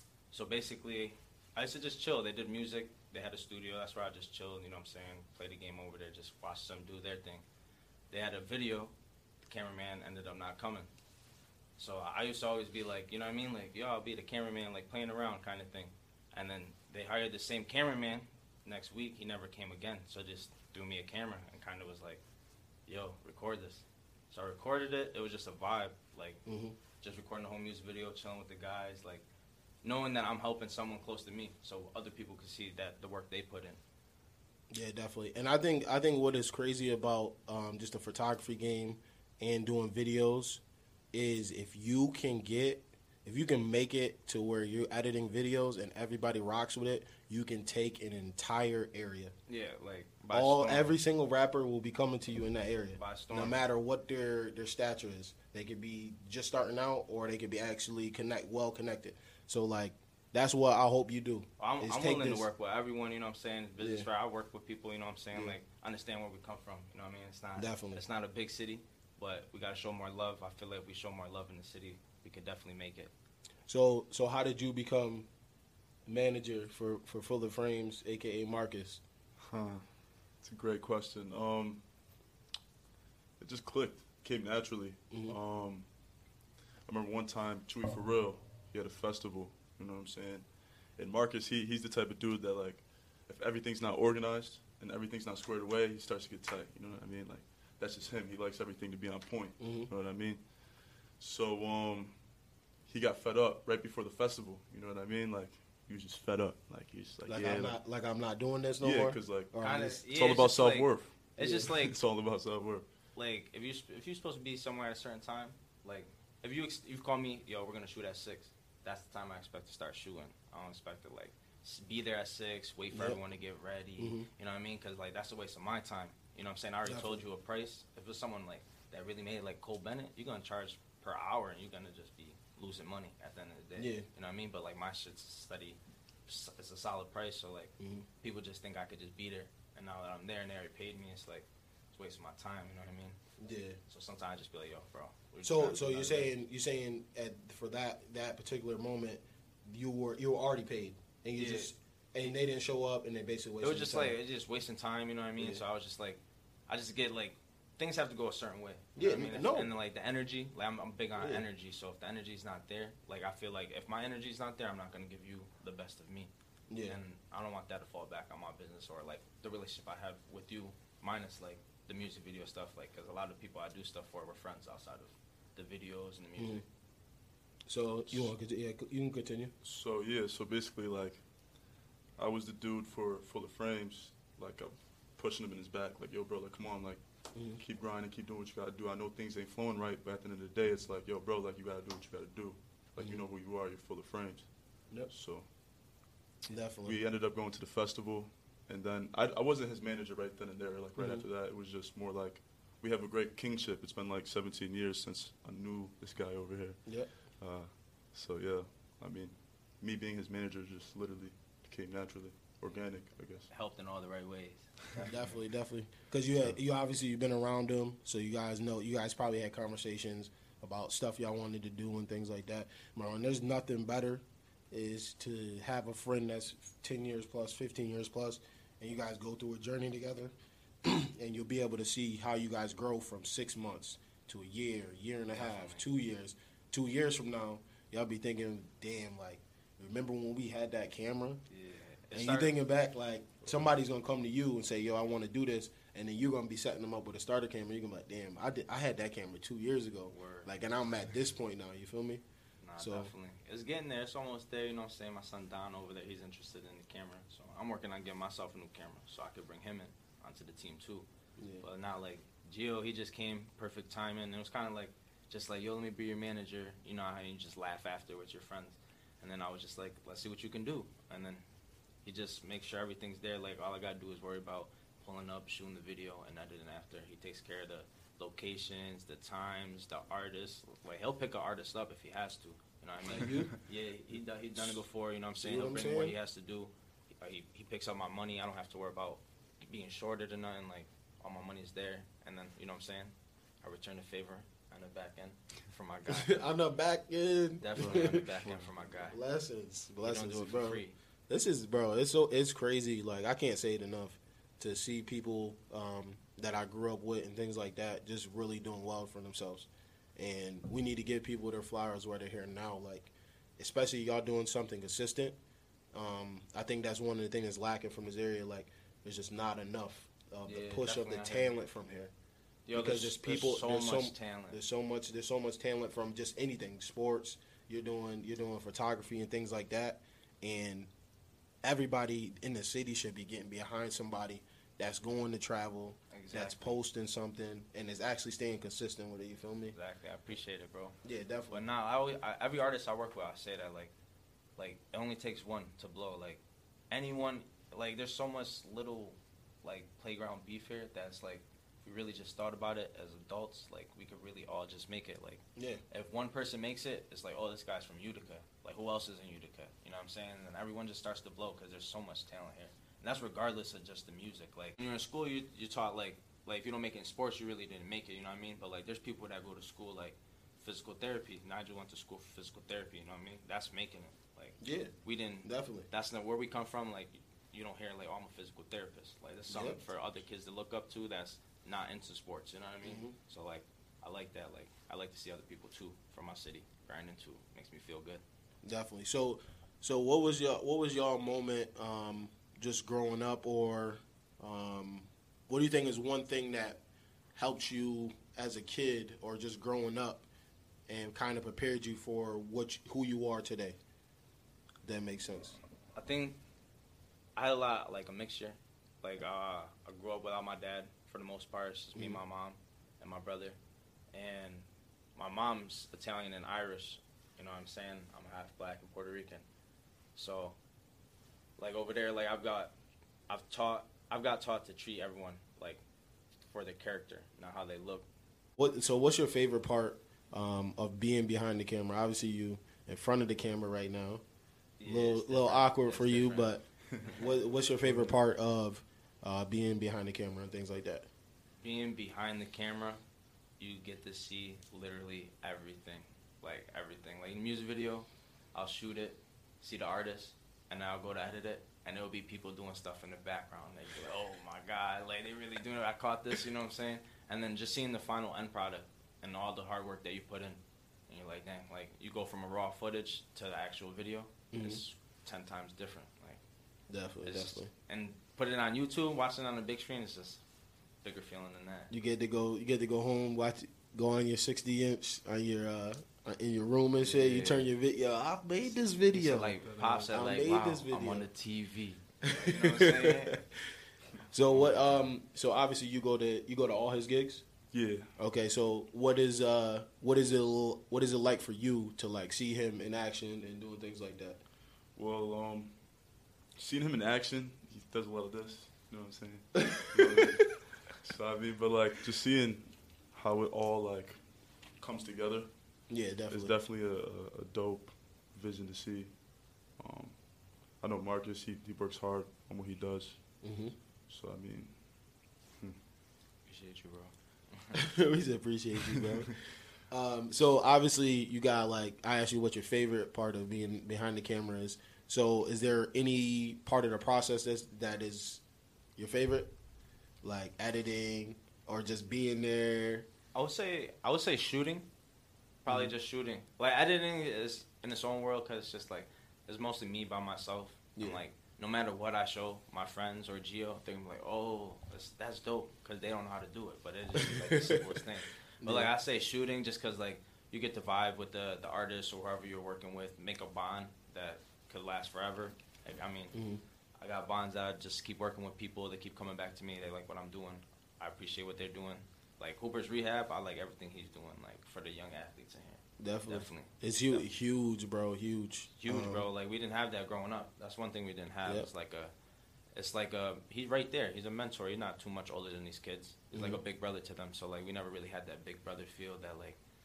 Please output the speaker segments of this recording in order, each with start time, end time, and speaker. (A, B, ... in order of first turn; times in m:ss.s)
0:00.3-0:07.4 A
0:08.1-0:08.9 A
0:09.4-0:10.9 A
0:11.8-0:22.2 A
0:22.9-0:26.4 A
0:26.4-0:26.8 B
0:27.0-0:29.2 A
0:29.8-0:33.8 A
0:34.7-0:40.6 B
0:41.1-0:49.3 B
0:49.5-0:51.0 A
0:50.3-1:02.5 B
0:53.0-0:53.6 A
1:01.6-1:13.1 A
1:03.8-1:04.1 B
1:07.6-1:08.0 B
1:13.7-1:15.3 B
1:16.1-1:19.0 B
1:19.4-1:19.8 C
1:20.4-1:21.8 C
1:23.4-1:25.8 C
1:25.1-1:25.4 B
1:26.9-1:30.4 C
1:31.0-1:40.4 C
1:39.6-1:39.9 B
1:41.2-1:42.1 C
1:42.8-1:47.8 C
1:47.2-1:50.0 B
1:48.8-1:49.5 C
1:49.6-1:51.9 A
1:50.1-1:52.8 C
1:51.4-1:51.7 B
1:53.1-2:23.2 A
2:02.9-2:03.2 B
2:04.0-2:04.3 B
2:06.8-2:07.2 B
2:13.8-2:14.0 B
2:17.8-2:18.0 B
2:23.4-2:23.8 B
2:23.9-2:26.3 A
2:25.4-2:34.2 B
2:31.4-2:31.7 A
2:33.6-2:46.3 A
2:39.0-2:39.7 B
2:41.2-2:41.4 B
2:46.7-2:47.0 B
2:46.8-2:56.6 A
2:56.4-2:56.6 B
2:57.7-2:59.5 B
2:59.6-3:01.2 C
3:02.2-3:07.0 C
3:07.3-3:07.6 B
3:07.6-3:14.5 C
3:15.1-3:15.4 C
3:16.5-3:17.0 B
3:16.8-3:26.8 C
3:21.0-3:21.2 B
3:27.4-3:33.5 C
3:33.5-3:35.1 A
3:35.0-4:01.4 B
3:55.3-3:55.8 A
4:01.5-4:02.5 A
4:02.1-4:12.2 B
4:10.1-4:10.5 A
4:12.6-4:21.1 A
4:12.8-4:13.1 B
4:21.4-4:21.6 B
4:21.6-4:31.4 A
4:32.0-4:56.3 A
4:43.1-4:43.5 B
4:45.4-4:46.1 B
4:56.1-4:58.3 B
4:57.6-4:59.2 A
4:57.8-4:58.7 C
4:59.1-5:15.4 B
5:00.0-5:00.9 A
5:15.9-5:22.1 B
5:20.4-5:21.5 A
5:22.6-5:24.6 A
5:22.7-5:30.9 B
5:31.6-5:39.7 B
5:36.1-5:36.8 A
5:39.7-5:41.0 A
5:41.0-5:41.6 B
5:41.5-5:43.9 A
5:44.6-6:28.2 A
5:55.6-5:55.8 B
6:14.6-6:14.9 B
6:15.4-6:15.9 B
6:19.5-6:19.8 B
6:22.8-6:23.2 B
6:28.6-6:36.8 B
6:37.3-6:40.3 B
6:40.9-6:43.8 B
6:44.8-6:45.6 B
6:45.9-6:46.4 A
6:47.4-6:53.6 A
6:51.9-6:52.2 B
6:54.1-6:59.4 A
7:00.1-7:00.6 A
7:01.6-7:02.7 A
7:03.3-7:05.8 A
7:06.5-7:08.1 A
7:08.6-7:14.2 B
7:14.8-7:17.2 A
7:14.8-7:16.6 B
7:17.1-7:21.1 B
7:21.6-7:23.0 A
7:23.6-7:46.4 A
7:44.5-7:44.8 B
7:46.9-7:47.7 B
7:47.2-7:50.4 A
7:51.0-7:51.9 A
7:51.9-8:01.3 B
7:57.0-7:57.7 A
7:59.1-8:03.4 A
7:59.6-8:00.1 C
8:02.2-8:03.4 B
8:04.3-8:07.4 B
8:07.7-8:08.1 C
8:08.2-8:14.4 B
8:15.0-8:15.7 C
8:16.6-8:24.2 C
8:19.6-8:20.3 B
8:24.8-8:25.5 C
8:25.9-8:26.5 B
8:26.3-8:29.1 C
8:29.8-8:30.2 C
8:30.8-8:33.2 C
8:33.4-8:33.7 B
8:34.1-8:34.7 C
8:36.5-8:37.8 A
8:37.7-8:39.4 B
8:39.9-8:48.4 B
8:49.0-8:49.5 B
8:50.2-8:53.1 B
8:53.3-8:54.9 A
8:55.6-9:16.4 A
9:07.2-9:07.9 B
9:08.6-9:08.9 B
9:16.3-9:16.6 B
9:17.0-9:27.2 A
9:26.0-9:29.3 B
9:28.8-9:32.1 A
9:32.8-9:39.6 A
9:36.3-9:36.6 B